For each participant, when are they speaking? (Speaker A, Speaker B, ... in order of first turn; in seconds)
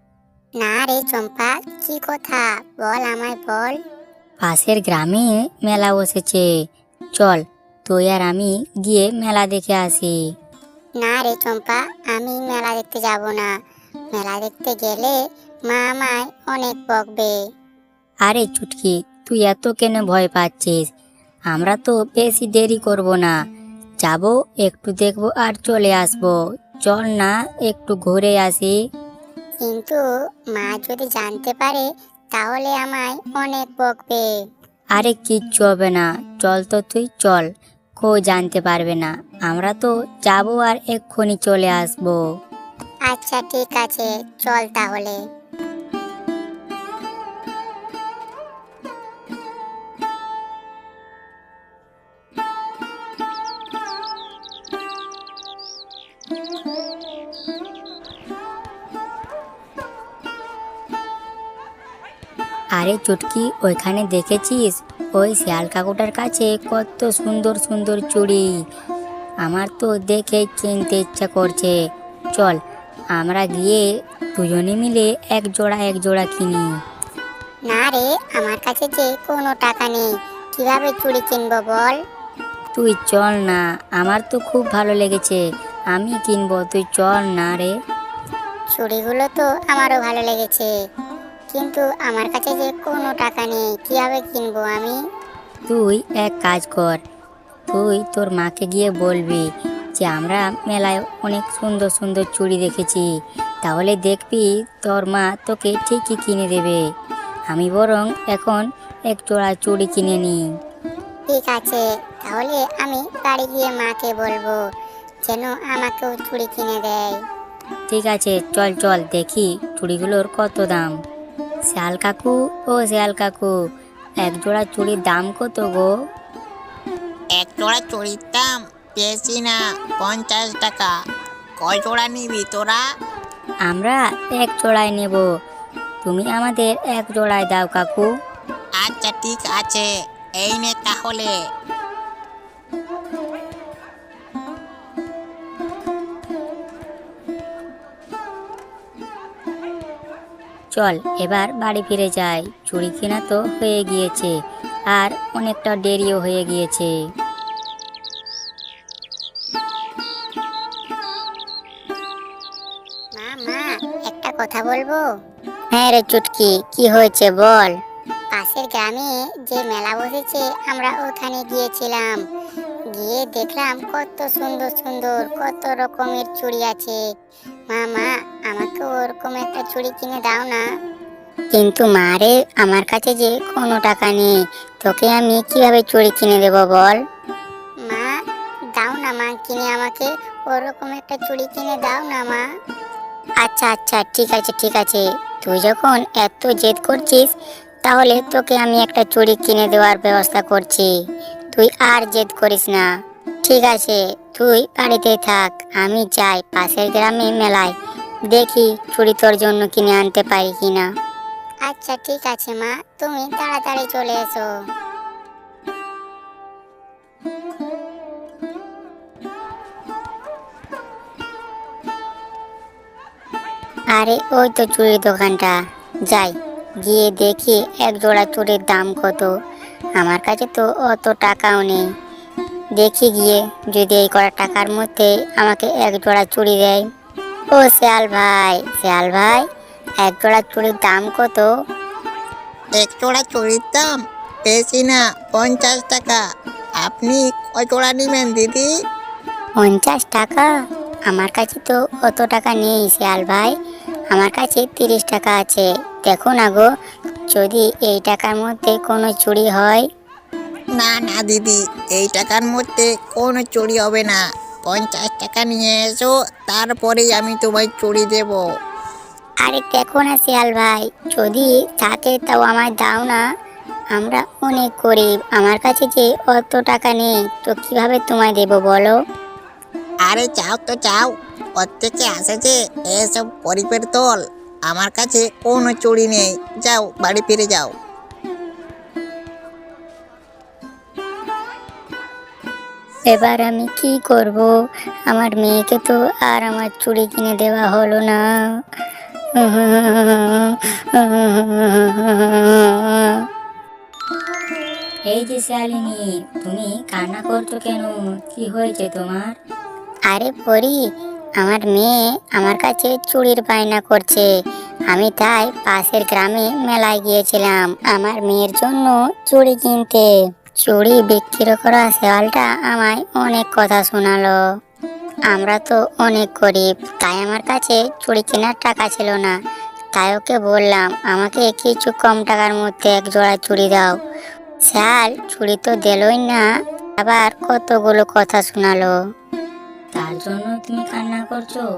Speaker A: 0.6-3.7, 11.0-13.5, 14.1-15.2, 15.7-17.4, 29.6-30.0, 30.5-34.2, 43.1-45.2, 77.7-82.0, 88.7-90.7, 91.5-95.0, 111.3-114.6, 115.3-117.1, 163.2-165.0, 165.7-167.7, 168.3-172.2, 172.9-177.0, 177.7-180.6, 181.5-187.0, 188.8-192.3, 193.4-197.3, 197.8-200.9, 201.5-202.8, 203.4-207.7, 208.3-210.9, 211.7-214.4, 223.9-225.6, 226.1-229.3, 230.0-231.8, 232.8-236.8, 237.5-239.4, 240.0-241.5, 249.6-250.5, 251.1-253.5, 254.1-256.7, 257.3-259.8, 269.4-273.2, 273.9-279.0, 293.1-294.5, 295.1-298.2, 299.4-303.2, 310.1-310.8, 311.4-314.3, 314.9-320.1, 320.6-324.4, 325.3-329.4, 329.9-333.9, 334.7-336.4, 337.0-338.9
Speaker B: 4.4-6.5, 7.1-10.1, 18.2-20.9, 21.5-23.3, 24.0-28.7, 34.9-42.2, 62.7-68.5, 69.4-71.7, 72.3-72.6, 73.1-76.7, 82.7-85.4, 85.9-87.7, 95.7-97.0, 97.7-103.1, 103.6-106.8, 107.5-110.4, 117.9-120.9, 121.7-123.5, 124.2-125.9, 133.6-135.3, 136.0-138.1, 150.7-154.3, 154.9-156.9, 305.1-309.4, 339.9-341.6
Speaker C: 127.3-130.9, 131.6-132.8, 138.8-141.3, 242.8-246.2, 246.8-248.7, 260.8-268.4, 280.0-287.7